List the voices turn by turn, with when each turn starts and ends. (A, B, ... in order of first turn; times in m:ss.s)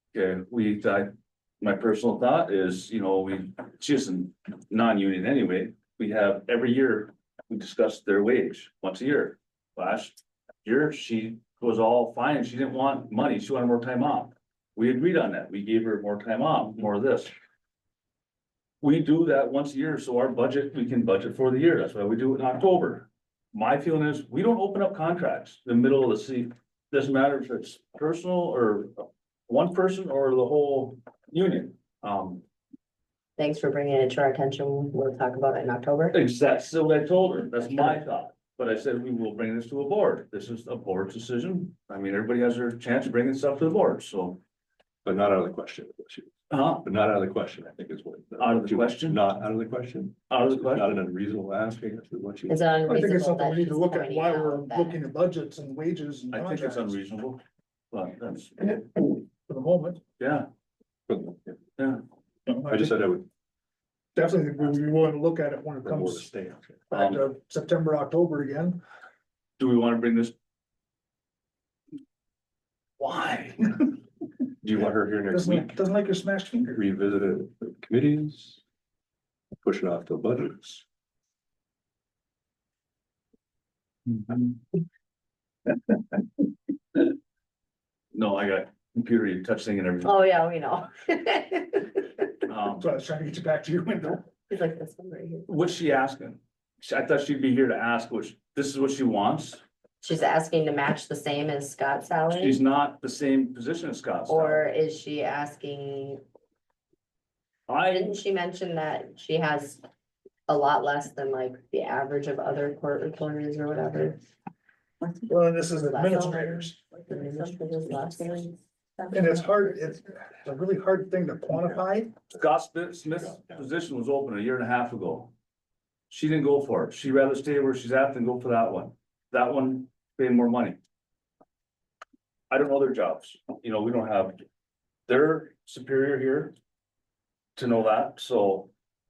0:00.1-0:17.3 A
0:18.8-0:32.4 A
0:33.4-0:36.2 B
0:36.1-0:44.4 A
0:45.0-0:46.3 C
0:46.5-0:46.8 A
0:46.8-0:52.6 C
0:48.4-0:49.2 A
0:50.3-0:51.0 A
0:52.5-0:55.0 B
0:52.9-0:57.0 D
0:56.3-0:57.4 A
0:57.9-0:58.9 A
0:59.5-1:00.0 D
1:00.2-1:00.5 A
1:01.1-1:01.6 C
1:01.8-1:02.0 A
1:02.5-1:03.0 D
1:02.7-1:03.3 C
1:04.2-1:06.3 D
1:05.8-1:06.8 C
1:06.9-1:08.8 D
1:06.9-1:07.3 A
1:09.6-1:10.4 A
1:13.0-1:13.9 A
1:14.6-1:15.8 C
1:15.3-1:16.8 D
1:16.7-1:18.6 C
1:19.6-1:20.8 C
1:24.1-1:24.6 A
1:28.1-1:30.2 A
1:30.0-1:32.2 B
1:32.5-1:32.9 A
1:32.8-1:34.3 D
1:34.5-1:35.5 B
1:35.5-1:39.6 A
1:40.0-1:42.6 B
1:42.3-1:44.6 A
1:44.3-1:46.2 B
1:47.7-1:48.2 A
1:47.9-1:49.8 B
1:50.5-1:54.2 B
1:55.3-1:57.0 D
1:55.7-1:59.6 B
1:59.1-2:02.2 D
2:02.3-2:05.3 A
2:03.2-2:03.7 C
2:06.1-2:10.8 A
2:12.5-2:14.4 A
2:15.1-2:16.5 A
2:17.6-2:18.7 A